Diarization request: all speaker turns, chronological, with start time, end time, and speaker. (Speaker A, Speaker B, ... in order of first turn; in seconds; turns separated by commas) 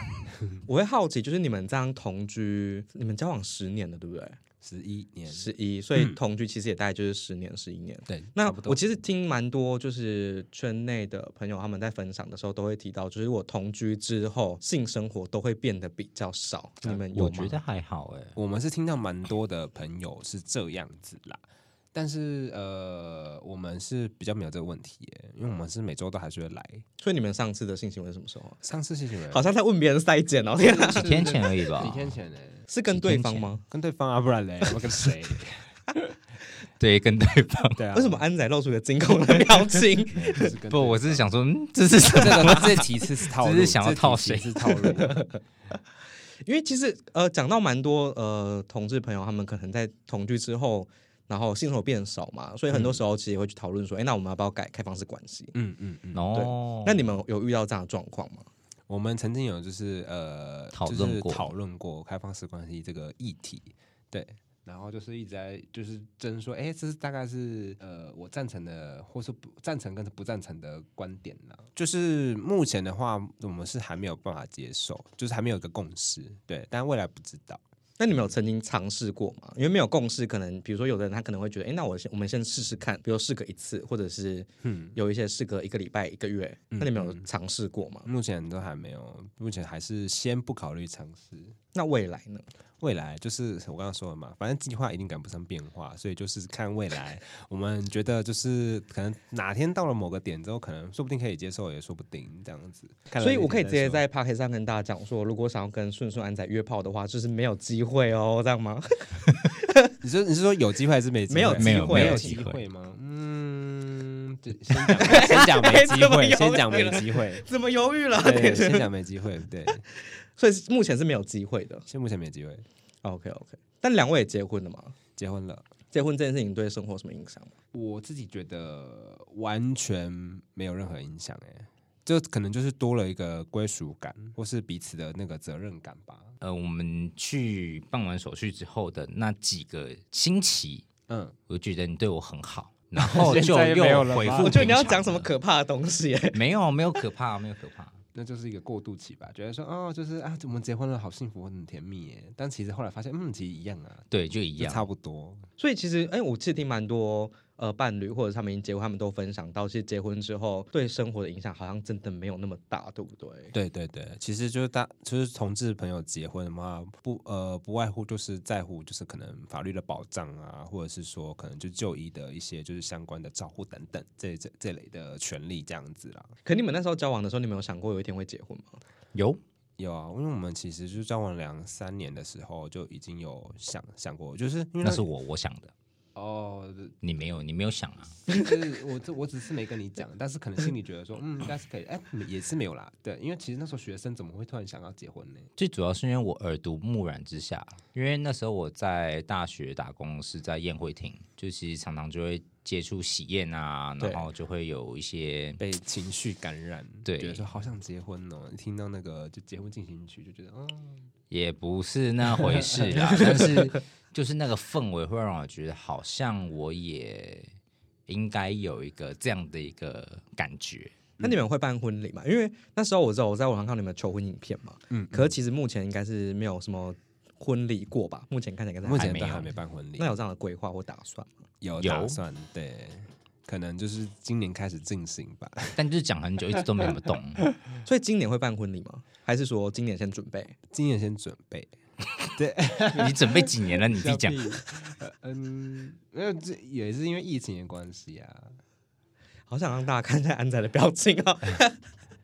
Speaker A: 0.3-0.6, Speaker B: 0.7-4.4, Speaker A: 4.6-6.2, Speaker B: 5.3-17.6, Speaker C: 8.5-8.8, Speaker C: 17.1-18.4, Speaker A: 18.4-26.8, Speaker B: 27.0-28.6, Speaker A: 28.6-29.5, Speaker B: 29.3-31.1, Speaker A: 30.6-32.7, Speaker C: 30.9-32.1, Speaker B: 32.7-33.6, Speaker C: 32.9-33.5, Speaker A: 33.7-36.1, Speaker C: 36.8-37.8, Speaker A: 37.8-38.2, Speaker B: 37.9-40.5, Speaker A: 40.1-41.3, Speaker C: 40.7-45.0, Speaker A: 42.1-45.2, Speaker B: 44.9-45.4, Speaker B: 46.4-55.5, Speaker A: 52.7-53.0, Speaker A: 55.5-56.2, Speaker C: 56.1-57.0, Speaker B: 56.3-58.5, Speaker A: 58.9-77.6, Speaker C: 60.7-61.5, Speaker B: 78.0-88.1, Speaker A: 84.6-85.0, Speaker A: 86.7-87.2, Speaker A: 88.0-91.5, Speaker B: 91.7-92.5, Speaker A: 92.8-104.0, Speaker B: 103.2-109.9, Speaker A: 110.0-117.4, Speaker B: 111.3-112.4, Speaker C: 111.5-112.6, Speaker B: 114.8-118.9, Speaker A: 118.2-119.8, Speaker B: 120.3-121.8, Speaker A: 121.9-122.6, Speaker B: 123.0-125.0, Speaker A: 125.2-125.7, Speaker B: 125.9-127.5, Speaker A: 127.7-136.4, Speaker C: 136.4-140.9, Speaker A: 141.1-141.3, Speaker C: 141.5-145.3, Speaker A: 143.0-144.8, Speaker B: 144.4-146.4, Speaker C: 146.3-148.0, Speaker A: 148.1-154.1, Speaker C: 154.1-154.9, Speaker A: 154.6-155.4, Speaker B: 155.6-163.5, Speaker A: 163.5-176.3, Speaker B: 176.4-178.8, Speaker C: 179.1-179.4, Speaker A: 179.8-185.1, Speaker C: 184.8-185.7, Speaker A: 186.1-187.0, Speaker C: 187.0-188.2, Speaker A: 188.3-195.5, Speaker C: 195.6-205.6, Speaker A: 205.6-211.1, Speaker C: 207.1-207.4, Speaker C: 211.3-217.5, Speaker A: 212.3-213.4, Speaker C: 218.1-220.9, Speaker B: 221.2-229.4, Speaker A: 224.9-225.3, Speaker A: 228.8-230.1, Speaker C: 228.9-229.5, Speaker B: 230.0-231.3, Speaker A: 231.6-235.8, Speaker C: 231.8-232.2, Speaker C: 235.7-237.4, Speaker A: 236.6-236.9, Speaker B: 237.8-240.6, Speaker A: 240.7-241.7, Speaker A: 242.3-248.6, Speaker C: 242.9-244.6, Speaker B: 249.5-251.8